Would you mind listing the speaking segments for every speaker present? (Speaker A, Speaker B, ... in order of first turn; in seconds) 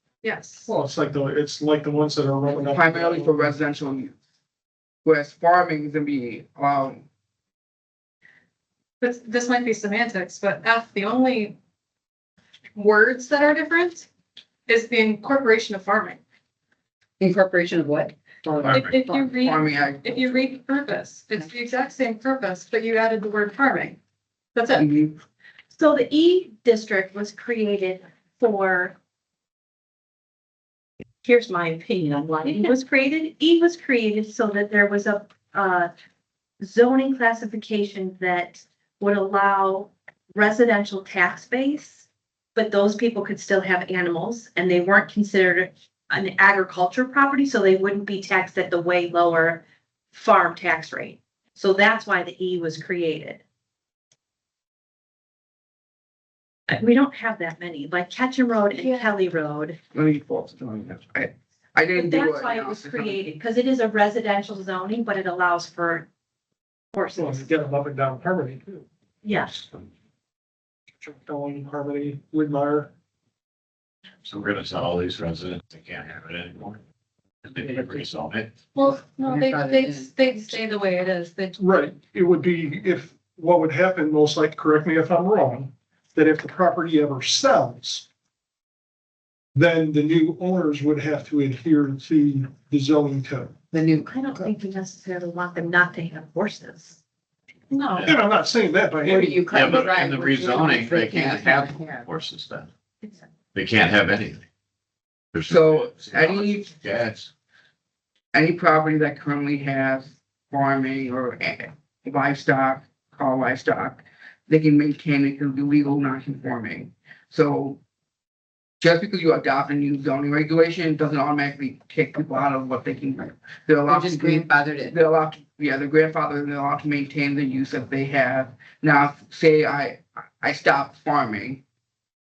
Speaker A: 0.2-0.7, 9.0-11.6, 12.7-14.1, 14.7-16.2, 18.7-24.0, 24.5-24.9, 58.8-59.1, 78.7-81.6
Speaker B: 0.7-3.6, 67.1-68.8, 71.0-72.9, 81.6-88.1, 89.5-93.5, 98.0-99.8
Speaker C: 2.6-4.2, 5.0-7.0, 19.3-20.4, 24.8-25.2, 59.9-63.2, 105.5-106.7, 108.3-117.8, 118.8-131.6
Speaker D: 17.2-19.3, 78.9-80.3, 93.7-94.5, 99.0-102.1, 123.9-124.9
Speaker E: 18.6-19.0, 74.2-76.8, 77.4-78.6, 99.5-102.7, 103.5-104.5, 105.3-107.3
Speaker F: 25.7-28.9, 31.2-35.9, 36.6-53.4, 56.7-59.8, 61.9-66.1, 66.9-67.5, 69.2-69.6, 94.0-97.0, 97.7-98.0